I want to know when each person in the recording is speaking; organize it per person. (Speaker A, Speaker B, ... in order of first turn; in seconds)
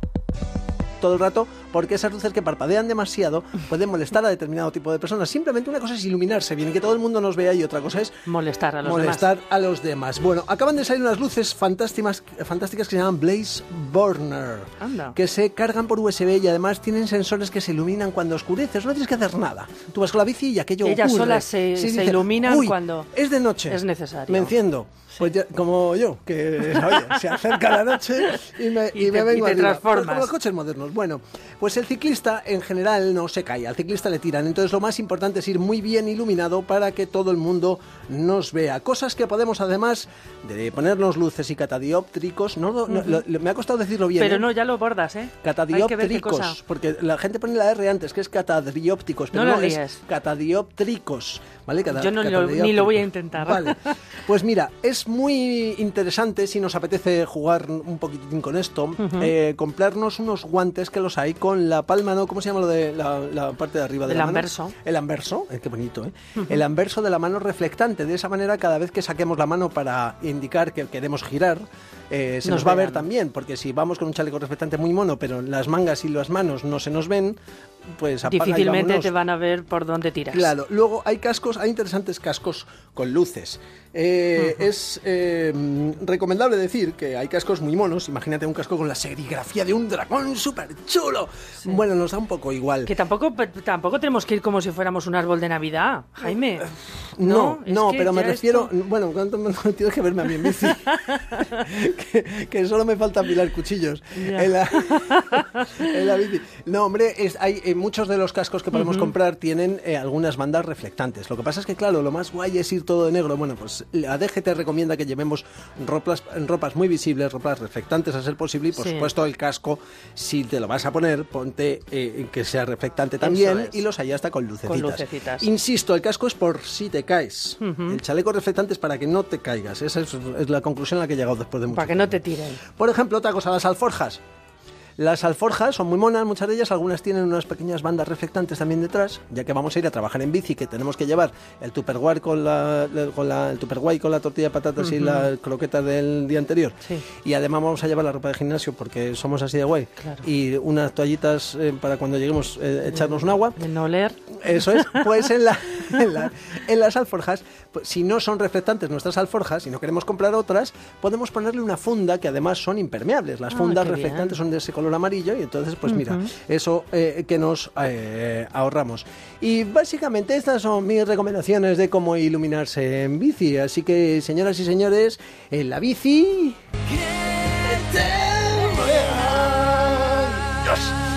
Speaker A: 1.0-8.2, 8.8-44.5, 45.4-77.4, 78.0-79.1, 80.3-92.9, 96.7-134.2, 135.0-153.6, 154.3-176.6, 177.4-180.9
Speaker B: 8.2-9.3, 14.8-15.2, 20.8-23.1, 23.7-24.5, 28.9-30.3, 42.9-43.2, 44.2-46.6, 49.3-50.0, 51.9-53.9, 59.0-59.3, 64.1-64.7, 66.4-66.6, 72.4-73.1, 78.2-80.5, 84.4-84.7, 92.8-96.7, 97.2-98.7, 100.4-101.4, 104.2-105.8, 108.7-109.1, 118.7-119.1, 123.2-123.8, 124.7-125.5, 127.6-128.0, 131.7-132.6, 144.8-145.3, 153.6-154.4, 163.5-164.3, 165.9-166.2